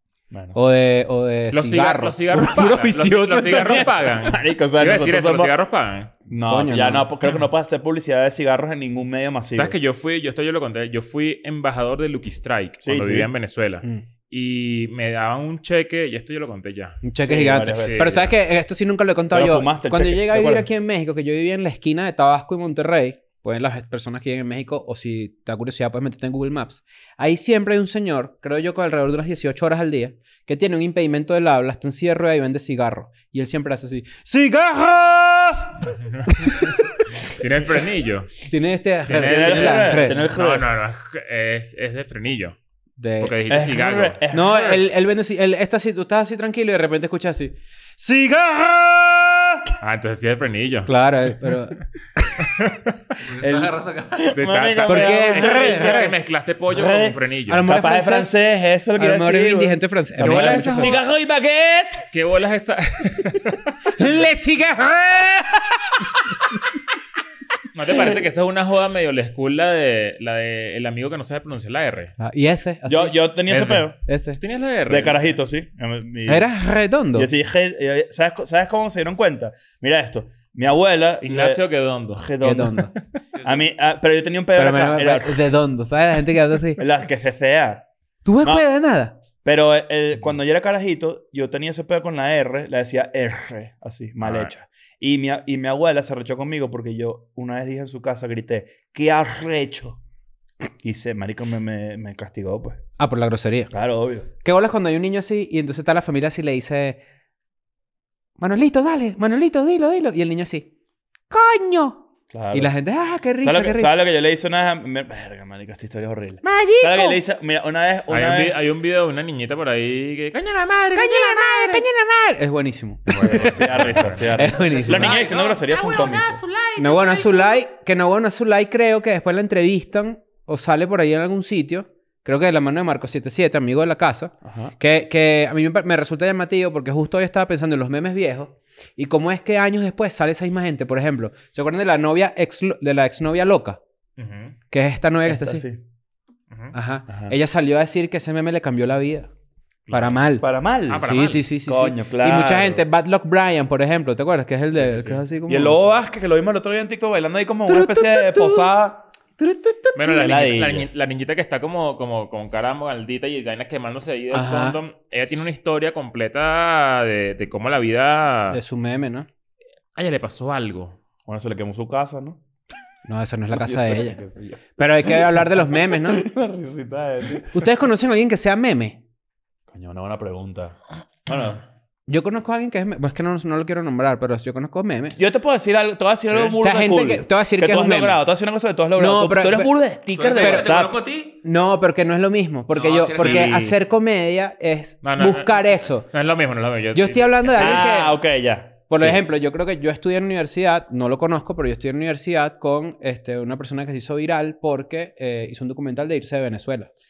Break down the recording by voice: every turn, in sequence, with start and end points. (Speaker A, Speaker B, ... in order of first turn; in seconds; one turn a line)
Speaker A: 0.3-0.6
Speaker B: 0.5-3.9
Speaker C: 1.5-6.1
Speaker A: 4.0-5.5
Speaker A: 6.3-9.7
Speaker B: 6.5-7.1
Speaker C: 9.5-18.2
Speaker A: 12.8-13.3
Speaker B: 17.0-35.7
Speaker A: 17.2-18.3
Speaker A: 19.3-20.7
Speaker C: 37.2-38.4
Speaker B: 38.5-40.3
Speaker C: 39.0-42.6
Speaker A: 39.2-40.7
Speaker B: 43.0-43.3
Speaker C: 43.2-44.2
Speaker A: 43.5-44.8
Speaker B: 44.3-49.2
Speaker C: 49.8-50.9
Speaker B: 50.9-51.8
Speaker C: 52.5-52.9
Speaker D: 53.2-54.2
Speaker B: 53.4-53.7
Speaker A: 54.1-56.1
Speaker C: 54.3-57.6
Speaker B: 54.9-56.1
Speaker A: 56.7-62.0
Speaker B: 57.5-58.4
Speaker B: 59.0-60.9
Speaker C: 60.2-61.0
Speaker C: 62.1-63.9
Speaker B: 64.0-65.5
Speaker A: 65.3-65.8
Speaker C: 67.7-72.1
Speaker B: 72.2-73.3
Speaker A: 72.9-74.0
Speaker C: 73.5-75.2
Speaker B: 74.0-74.4
Speaker A: 74.9-76.5
Speaker B: 76.2-77.3
Speaker A: 77.1-81.6
Speaker C: 81.2-82.3
Speaker A: 82.1-82.8
Speaker B: 82.4-82.9
Speaker D: 83.3-83.6
Speaker A: 83.4-85.4
Speaker B: 84.5-86.8
Speaker A: 86.8-87.8
Speaker B: 88.2-89.2
Speaker A: 89.4-100.0
Speaker C: 94.2-94.5
Speaker A: 100.8-102.8
Speaker B: 103.0-103.7
Speaker A: 103.7-104.3
Speaker B: 104.4-107.0
Speaker B: 108.4-110.7
Speaker B: 111.3-113.9
Speaker A: 112.3-112.7
Speaker A: 113.4-118.5
Speaker B: 116.4-117.2
Speaker C: 118.1-121.8
Speaker B: 120.9-125.2
Speaker C: 123.1-124.5
Speaker A: 123.3-126.4
Speaker D: 124.8-127.6
Speaker B: 126.8-143.8
Speaker A: 134.4-134.7
Speaker C: 144.2-144.6
Speaker B: 144.7-145.6
Speaker A: 145.2-145.8
Speaker B: 146.7-149.3
Speaker A: 147.1-147.3
Speaker C: 149.9-150.2
Speaker B: 149.9-150.4
Speaker A: 150.4-151.1
Speaker C: 150.9-151.5
Speaker B: 151.0-155.8
Speaker A: 151.6-152.8
Speaker C: 154.8-155.2
Speaker A: 155.5-159.1
Speaker B: 157.7-158.7
Speaker B: 159.4-160.1
Speaker C: 159.9-168.6
Speaker A: 160.1-160.9
Speaker B: 164.3-164.8
Speaker B: 168.5-169.3
Speaker C: 169.9-171.0
Speaker A: 171.2-172.4
Speaker B: 173.0-174.2
Speaker A: 173.5-177.7
Speaker B: 174.8-176.2
Speaker B: 177.5-179.0
Speaker A: 179.7-181.6
Speaker B: 182.1-185.2
Speaker A: 185.2-191.0
Speaker B: 186.6-188.2
Speaker B: 189.0-189.7
Speaker D: 190.1-191.4
Speaker B: 190.4-190.7
Speaker B: 191.4-196.1
Speaker D: 192.7-193.5
Speaker A: 192.7-193.8
Speaker C: 195.0-197.8
Speaker B: 196.9-198.2
Speaker A: 197.6-199.2
Speaker B: 198.9-206.9